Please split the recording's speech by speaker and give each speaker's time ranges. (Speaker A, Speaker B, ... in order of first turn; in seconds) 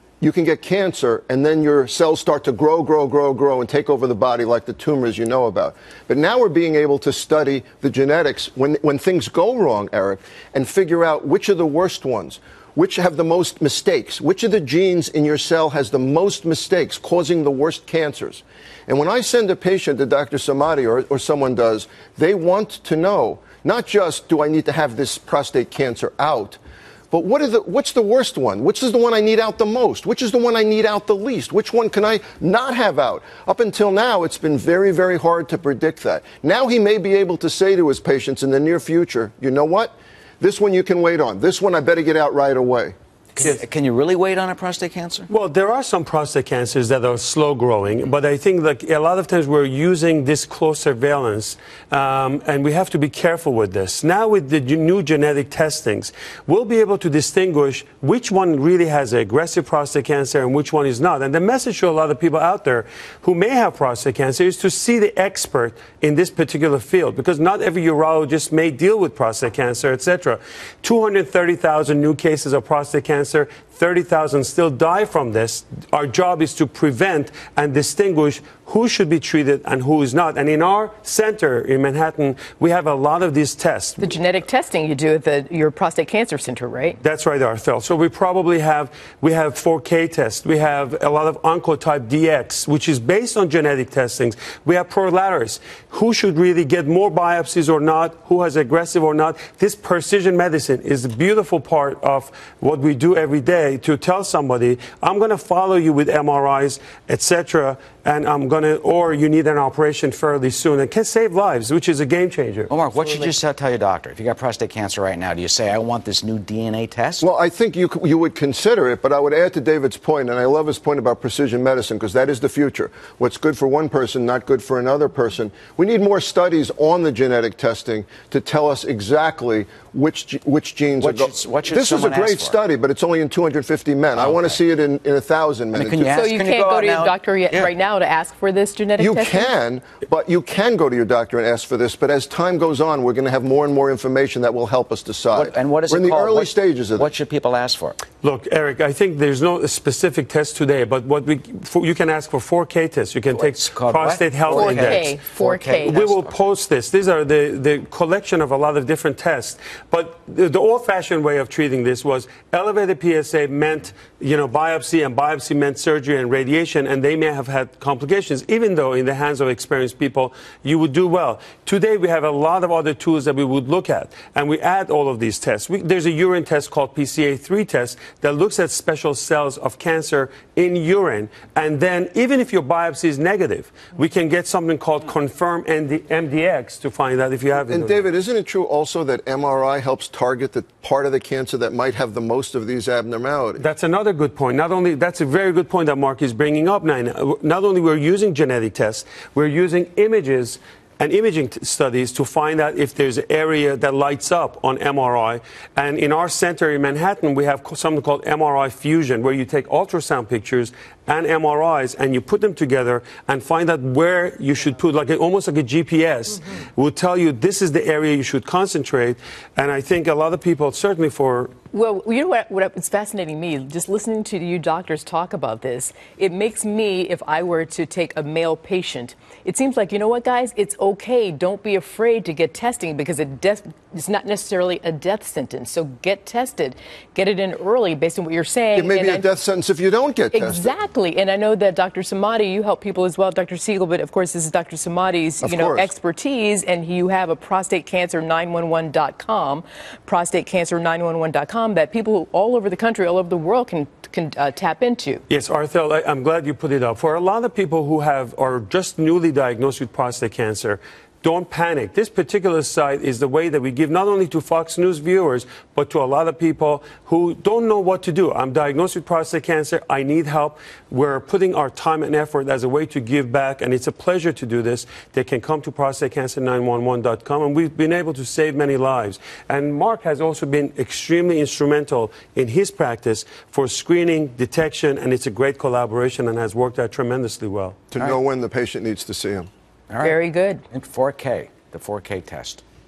Speaker A: 0.2-26.6, 27.1-43.0, 117.2-136.1, 139.0-147.1, 187.6-193.7, 238.8-240.7, 245.4-245.9, 287.9-289.5
Speaker B: 43.4-45.3, 112.7-117.3, 131.0-132.6, 134.2-134.6, 135.7-137.7, 145.3-148.0, 153.3-156.4, 289.9-290.2, 290.7-292.6
Speaker C: 45.3-84.1, 87.0-112.7, 148.2-155.2, 155.8-188.1, 193.6-221.5, 255.3-287.8
Speaker D: 84.0-87.0, 136.1-139.5, 154.5-156.0, 221.7-239.3, 240.3-255.2, 290.0-290.6